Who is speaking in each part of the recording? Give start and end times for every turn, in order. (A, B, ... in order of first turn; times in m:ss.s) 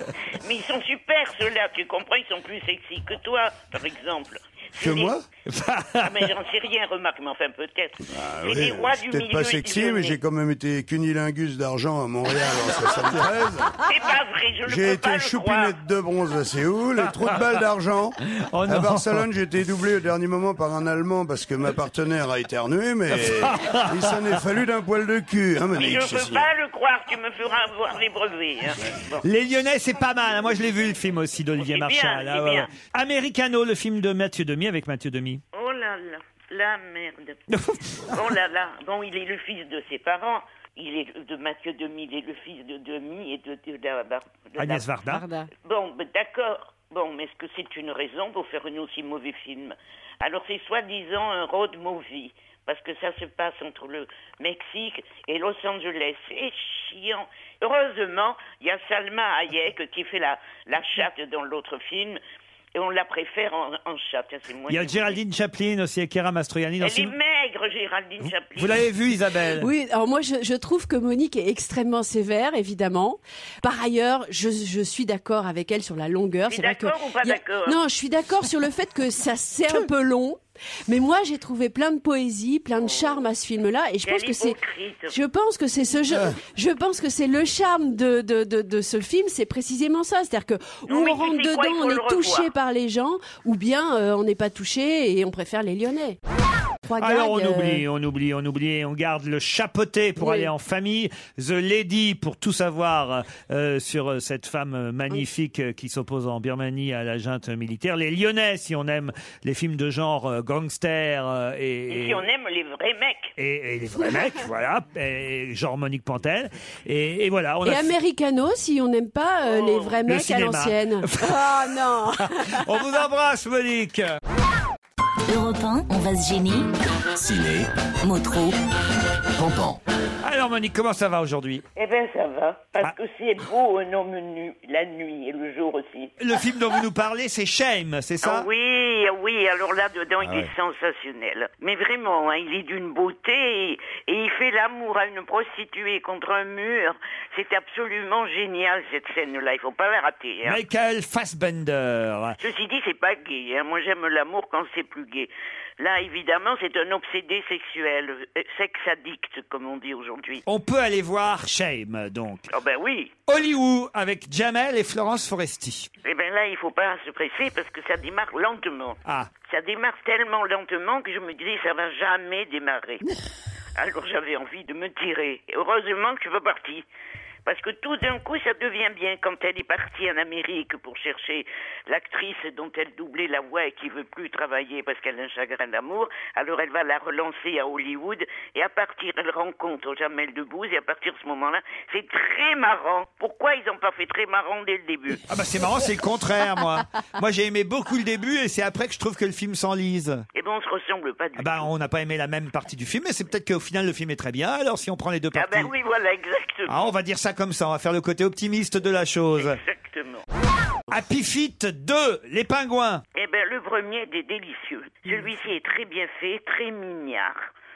0:00.3-0:05.1 A
0:04.8-0:05.2 B
0:05.5-0:06.3 C
0:06.0-0:10.2 A
0:08.1-0:13.8 B
0:13.8-0:15.8 A
0:14.6-0:18.2 B
0:18.4-0:19.3 C
0:18.7-0:26.5 B
0:23.1-0:24.4 C
0:25.7-0:29.2 A
0:29.2-0:35.4 C
0:31.6-0:32.7 A
0:35.5-0:37.4 A
0:37.5-0:38.2 C
0:38.1-0:44.9 A
0:44.6-0:45.2 C
0:45.1-0:45.5 D
0:45.6-1:02.2 A
1:02.8-1:05.2 A
1:04.7-1:07.1 C
1:06.8-1:08.9 A
1:08.6-1:09.7 C
1:09.5-1:24.6 D
1:16.5-1:17.8 A
1:22.8-1:23.2 A
1:24.0-1:25.2 A
1:25.1-1:36.2 D
1:30.9-1:32.5 A
1:36.8-1:37.8 D
1:37.0-1:52.3 C
1:40.2-1:40.5 D
1:51.9-1:53.3 A
1:53.4-1:57.9 C
1:57.6-2:02.7 D
1:59.5-2:00.0 A
2:00.0-2:04.2 C
2:05.3-2:08.6 E
2:09.4-2:09.7 E
2:10.2-2:11.6 C
2:11.8-2:16.1 A
2:16.2-2:18.5 C
2:18.2-2:30.6 A
2:20.2-2:20.5 C
2:30.4-2:32.4 C
2:32.4-2:40.4 A
2:40.5-2:42.5 C
2:42.5-2:43.2 A
2:43.3-2:45.9 C
2:46.0-2:53.1 A
2:49.1-2:49.3 C
2:53.8-2:56.8 A
2:57.5-3:15.2 A
3:15.3-3:20.2 C
3:20.4-3:21.7 A
3:21.4-3:25.7 C
3:25.4-3:26.9 A
3:26.7-3:29.6 C
3:29.4-3:30.2 A
3:30.9-3:33.0 C
3:33.2-3:37.5 A